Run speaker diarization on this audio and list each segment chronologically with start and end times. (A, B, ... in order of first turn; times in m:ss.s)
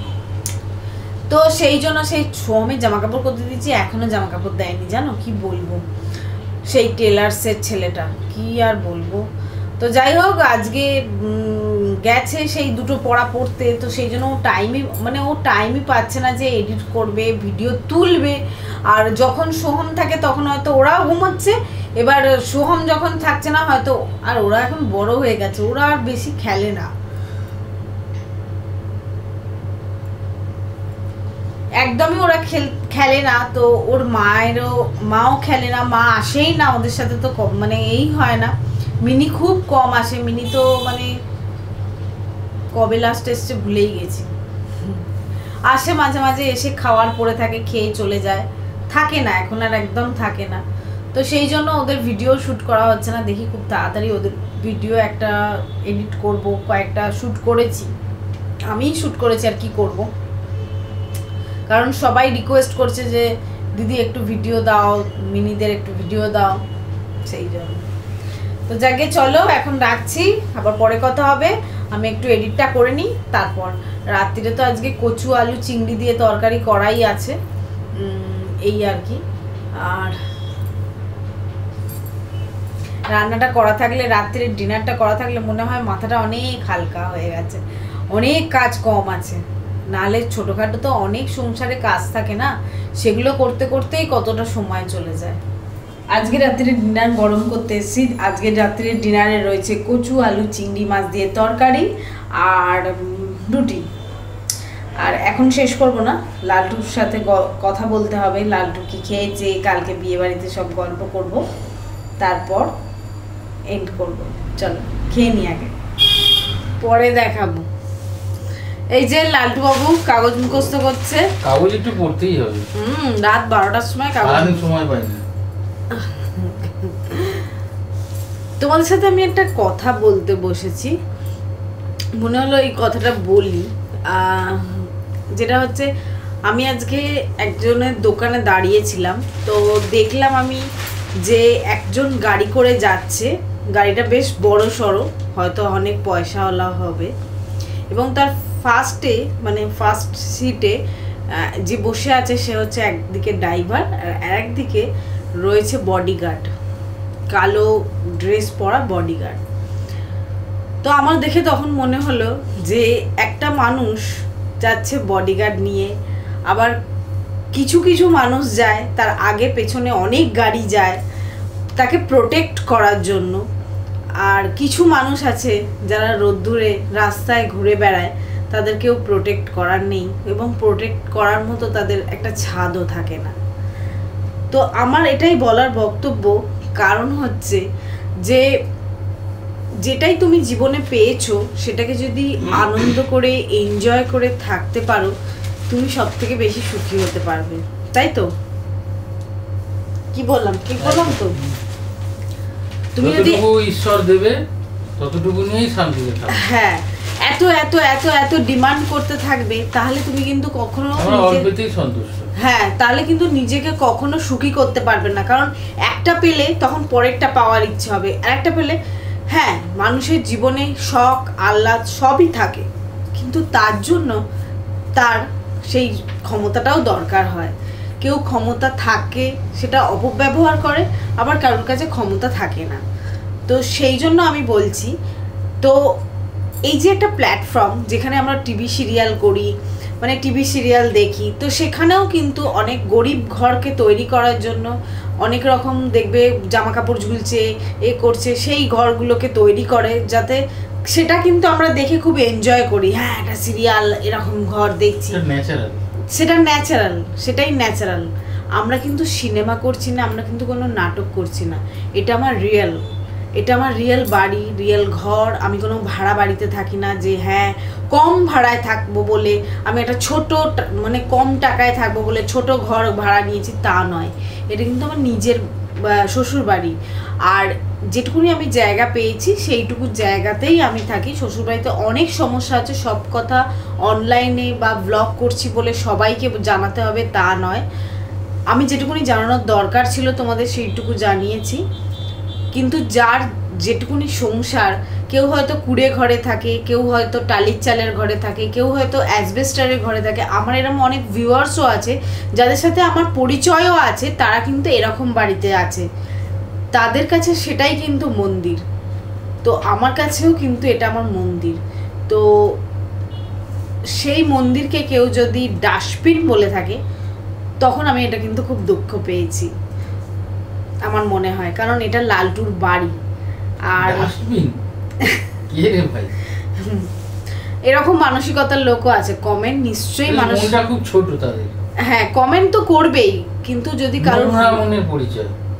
0:01.3-0:05.8 A
0:06.7-0:09.2 A
0:09.8-0:26.9 A
0:31.8-0:41.1 A
0:42.7-0:44.3 A
0:45.7-0:57.9 A
0:58.7-1:00.1 A
1:01.7-1:06.6 A
1:07.2-1:07.8 A
1:08.7-1:17.4 A
1:18.0-1:19.2 A
1:19.8-1:20.2 A
1:23.1-1:35.4 A
1:36.1-1:43.9 A
1:45.0-1:51.4 A
1:52.2-1:52.7 A
1:53.7-1:55.7 A
1:56.8-1:57.6 A
1:58.9-2:01.2 A
2:01.4-2:02.7 B
2:02.8-2:04.6 A
2:04.2-2:05.2 B
2:05.9-2:07.5 A
2:08.6-2:10.9 A
2:12.2-2:15.9 A
2:16.5-2:20.6 A
2:21.2-2:27.1 A
2:27.9-2:30.8 A
2:31.3-2:34.9 A
2:35.4-2:36.5 A
2:37.3-2:39.4 A
2:40.8-2:44.1 A
2:44.6-2:45.9 A
2:46.5-2:46.8 A
2:47.5-2:51.0 A
2:51.8-2:53.4 A
2:54.2-3:03.4 A
3:04.5-3:07.6 A
3:09.8-3:15.1 A
3:15.7-3:18.3 A
3:20.1-3:21.3 A
3:20.8-3:21.6 B
3:22.9-3:23.4 A
3:23.0-3:24.4 B
3:25.0-3:26.4 B
3:26.3-3:31.5 A
3:31.0-3:32.3 B
3:32.4-3:38.8 A
3:39.3-3:44.2 A
3:45.0-3:52.8 A
3:53.5-3:54.9 A
3:56.7-4:15.2 A
4:15.1-4:15.8 B
4:16.1-4:22.8 A
4:23.4-4:47.6 A
4:48.5-4:51.6 A
4:52.5-5:05.8 A
5:06.7-5:08.6 A
5:09.4-5:12.2 A
5:14.0-5:16.8 A
5:17.6-5:19.5 A
5:20.9-5:23.0 A
5:23.7-5:24.1 A
5:23.8-5:24.6 B
5:25.0-5:25.2 A
5:25.5-5:26.2 B
5:26.4-5:26.9 A
5:27.7-5:30.6 A
5:30.1-5:31.6 B
5:31.8-5:34.6 A
5:34.0-5:35.3 B